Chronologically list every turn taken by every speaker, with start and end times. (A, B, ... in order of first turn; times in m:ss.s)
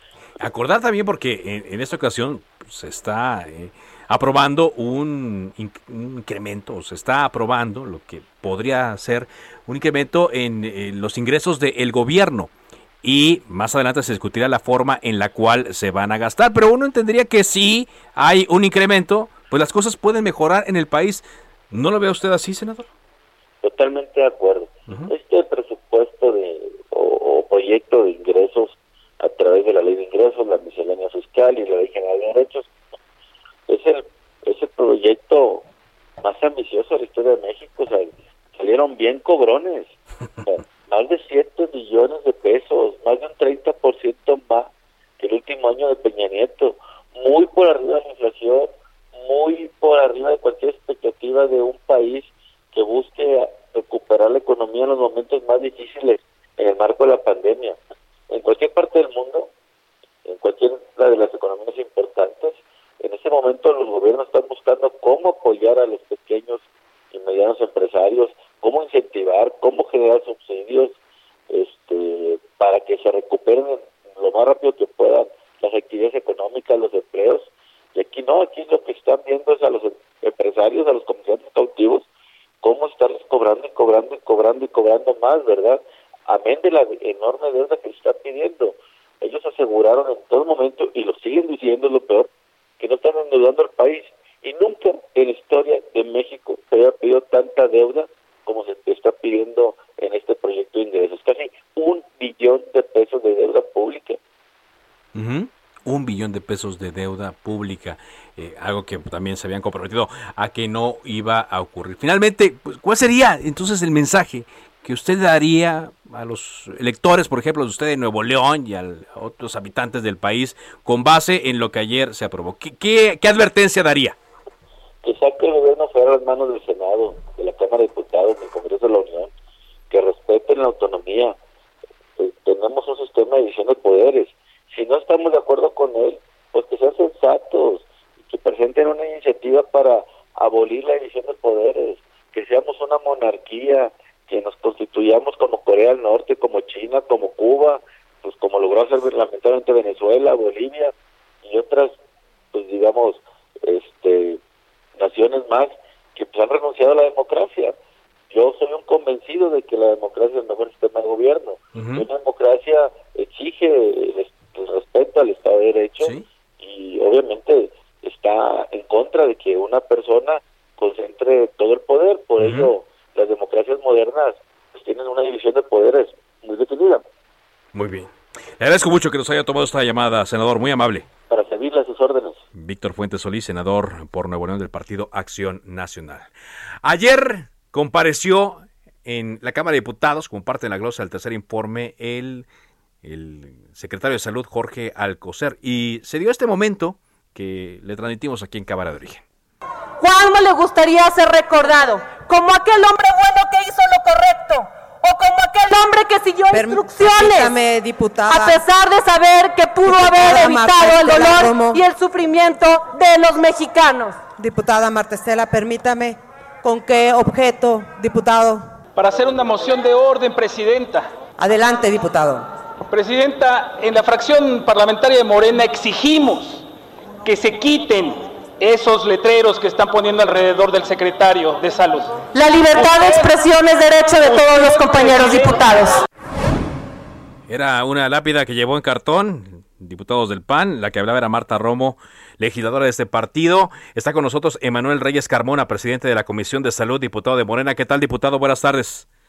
0:00.4-0:22.9 A
0:23.6-0:32.7 B
0:33.7-0:35.7 B
0:36.2-0:57.8 B
0:58.3-0:59.5 B
1:00.2-1:11.0 B
1:11.5-1:22.1 B
1:22.6-1:44.2 B
1:45.2-2:04.2 A
2:05.0-2:09.3 B
2:09.9-2:11.4 B
2:12.2-2:30.9 B
2:31.4-2:31.9 B
2:32.5-2:34.4 B
2:35.0-2:37.7 B
2:38.3-2:57.0 B
2:41.8-2:42.1 A
2:46.0-2:46.2 A
2:52.4-2:52.7 A
2:57.7-3:01.1 A
3:01.3-3:02.4 B
3:02.6-3:06.3 A
3:06.8-3:12.5 A
3:13.0-3:19.2 A
3:20.0-3:27.6 C
3:26.5-3:28.6 D
3:28.3-3:34.3 C
3:29.8-3:31.8 D
3:34.4-3:38.6 D
3:39.0-3:41.1 E
3:41.4-3:42.5 D
3:42.9-3:46.7 E
3:47.2-3:52.2 E
3:52.3-3:56.0 C
3:52.7-3:53.2 E
3:54.2-3:55.6 E
3:57.5-4:09.1 A